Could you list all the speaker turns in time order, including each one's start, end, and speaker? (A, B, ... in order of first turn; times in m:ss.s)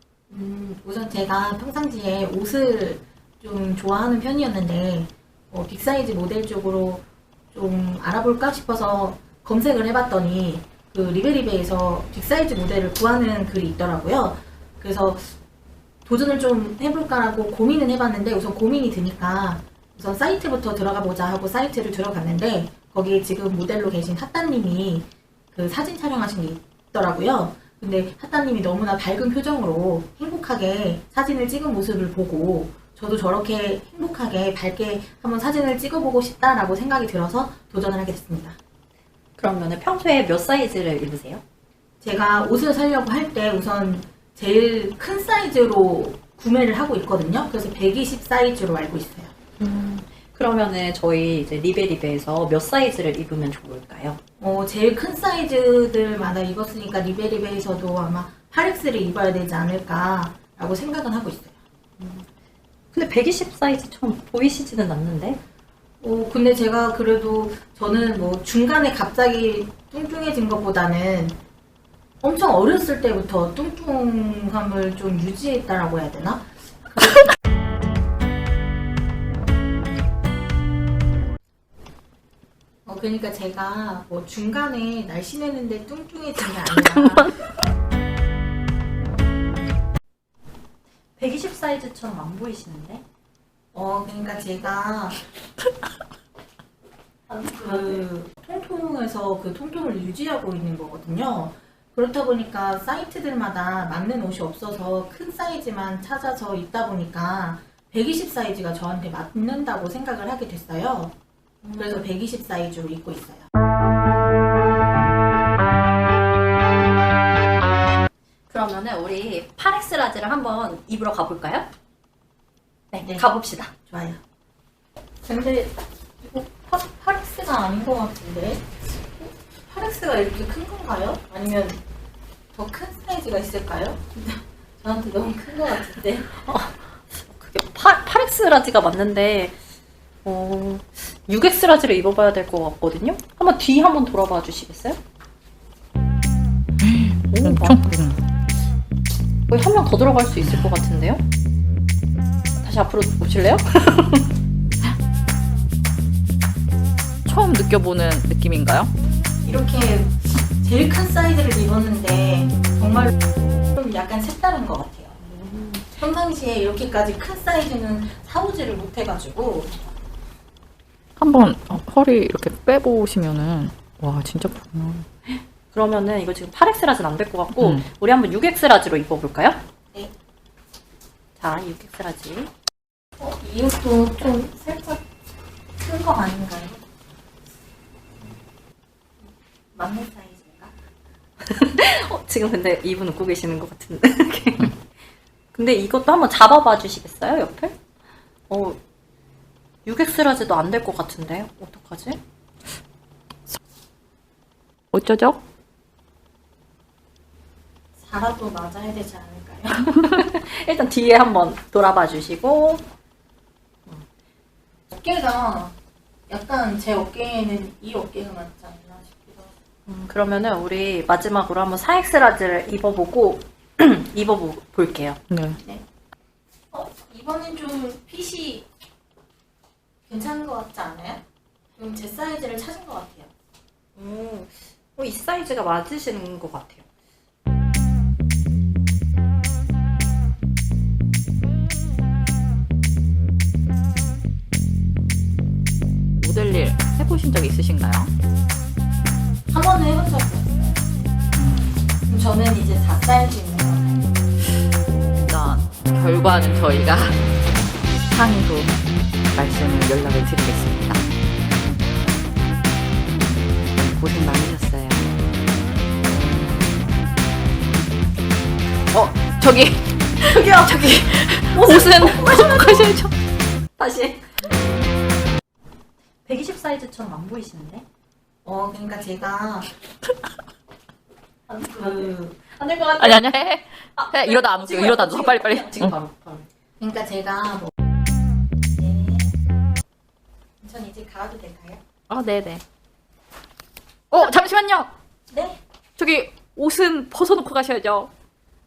0:00.3-0:07.0 A
0:07.5-0:15.2 A
0:16.0-0:25.0 A
0:25.5-0:38.5 A
0:39.4-0:41.4 B
0:42.0-0:49.3 A
0:49.6-0:54.2 B
0:54.4-1:01.5 A
1:02.0-1:02.3 B
1:02.9-1:05.4 B
1:06.0-1:11.3 A
1:12.2-1:17.2 A
1:22.8-1:27.3 A
1:26.6-1:27.4 B
1:31.2-1:33.0 B
1:33.7-1:35.1 A
1:37.3-1:38.0 B
1:37.8-1:51.1 A
1:51.6-1:52.0 B
1:51.8-1:53.5 A
1:58.5-2:01.7 B
2:02.9-2:03.7 B
2:03.9-2:04.2 A
2:05.2-2:05.7 A
2:06.2-2:08.6 A
2:09.2-2:11.8 A
2:12.5-2:16.2 A
2:16.3-2:19.6 B
2:20.2-2:25.0 B
2:26.8-2:28.2 C
2:27.3-2:27.9 B
2:29.5-2:31.2 B
2:32.6-2:34.3 B
2:37.2-2:38.9 C
2:39.4-2:40.1 A
2:40.6-2:43.1 A
2:43.8-2:45.1 A
2:45.2-2:45.8 B
2:46.0-2:49.7 A
2:51.2-2:55.0 C
2:55.3-2:59.6 B
2:57.5-2:57.8 C
3:01.4-3:02.5 B
3:03.2-3:04.8 A
3:05.8-3:06.8 A
3:09.8-3:10.7 A
3:11.4-3:14.8 B
3:15.5-3:17.8 B
3:18.5-3:18.8 B
3:19.8-3:22.2 B
3:24.9-3:25.4 C
3:28.0-3:29.7 A
3:29.8-3:32.8 B
3:34.9-3:35.7 A
3:36.3-3:39.5 A
3:39.8-3:45.2 B
3:45.3-3:45.6 C
3:46.8-3:48.6 A
3:50.1-3:51.2 A
3:51.8-3:53.3 A
3:54.0-3:56.8 B
4:06.2-4:08.1 C
4:09.5-4:10.7 A
4:11.3-4:11.8 C
4:12.1-4:14.0 A
4:15.2-4:17.2 C
4:18.1-4:18.8 C
4:19.3-4:21.0 C
4:23.8-4:25.0 C
4:26.1-4:26.6 C
4:28.9-4:33.1 C
4:30.3-4:32.9 B
4:33.8-4:34.3 B
4:36.2-4:37.8 B
4:38.4-4:39.7 A
4:41.5-4:43.3 B
4:43.0-4:45.9 C
4:43.9-4:46.5 B
4:46.8-4:47.7 A
4:48.8-4:49.3 A
4:50.6-4:51.8 A
4:52.1-4:52.6 C
4:54.1-4:54.9 C
4:55.3-4:55.6 A
4:56.0-4:58.1 C